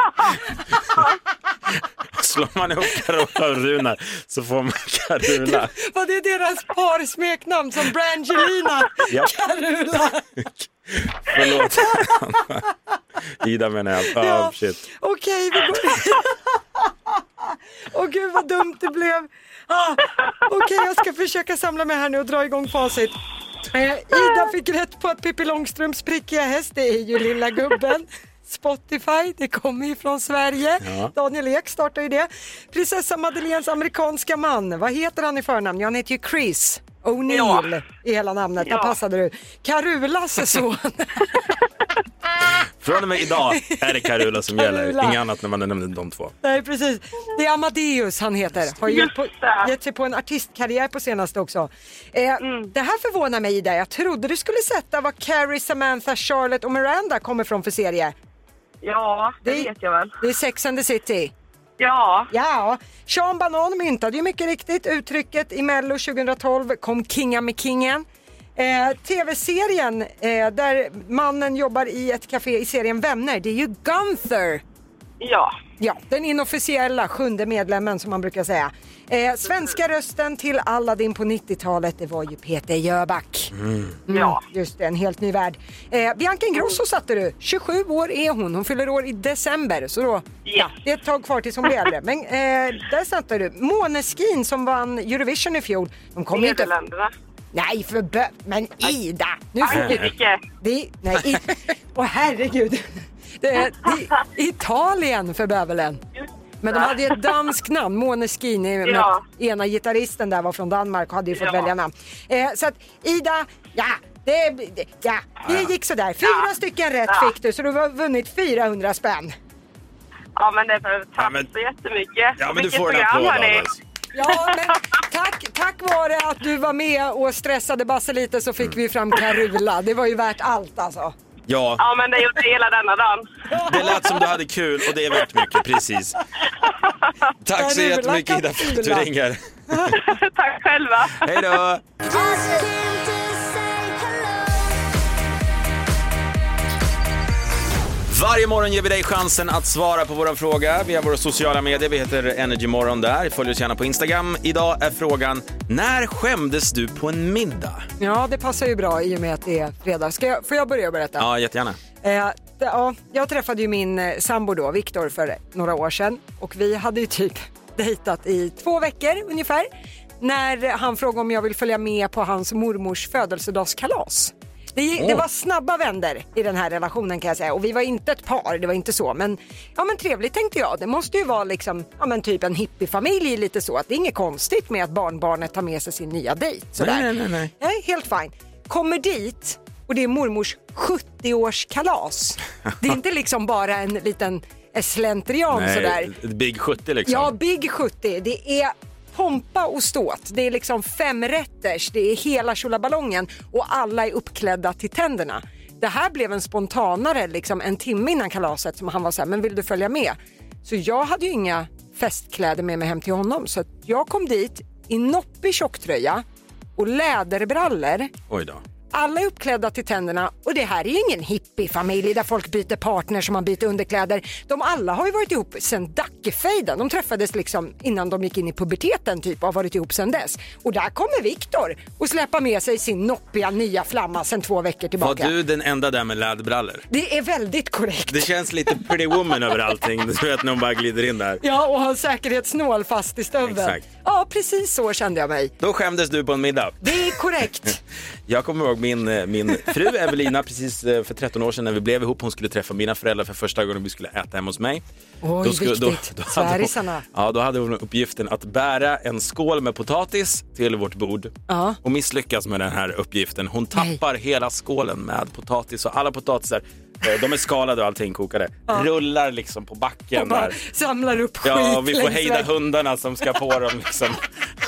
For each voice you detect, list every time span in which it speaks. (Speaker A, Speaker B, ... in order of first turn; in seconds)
Speaker A: 2.1-5.7, 10.4-12.7, 13.4-14.8, 30.8-31.1, 42.8-46.3, 83.5-84.0, 99.6-100.1, 115.4-115.7, 121.2-121.5, 122.4-123.8, 131.5-131.8, 133.6-136.2, 137.4-139.7, 141.2-141.8, 148.1-157.9, 161.2-161.8, 175.0-175.2, 186.8-187.5, 195.5-197.3, 218.3-218.6, 235.0-236.8, 238.1-241.4, 243.4-243.8, 245.6-246.9, 248.3-254.8, 255.4-270.6, 271.4-274.2
Speaker B: 5.5-10.2, 14.1-16.8, 17.9-23.1, 23.7-41.5, 44.5-45.2, 46.4-58.1, 59.4-61.3, 62.3-74.6, 75.8-83.5, 84.1-96.7, 97.5-106.0, 106.6-119.3, 124.1-131.1, 137.5-139.1, 139.7-140.0, 142.1-142.7, 158.0-161.3, 162.0-169.7, 170.2-196.1, 197.1-216.2, 216.8-218.1, 218.9-235.3, 236.9-239.2, 241.4-245.5, 246.8-247.8, 255.2-257.0, 261.5-261.8, 270.1-272.5
Speaker C: 37.3-37.7, 38.6-39.0, 48.9-49.7, 52.4-52.7, 58.8-60.1, 61.8-62.3, 75.2-75.5, 84.1-84.4, 90.5-90.7, 96.3-97.1, 99.6-100.4, 106.2-107.2, 108.8-109.2, 111.3-111.7, 120.3-123.7, 131.8-133.2, 140.0-141.5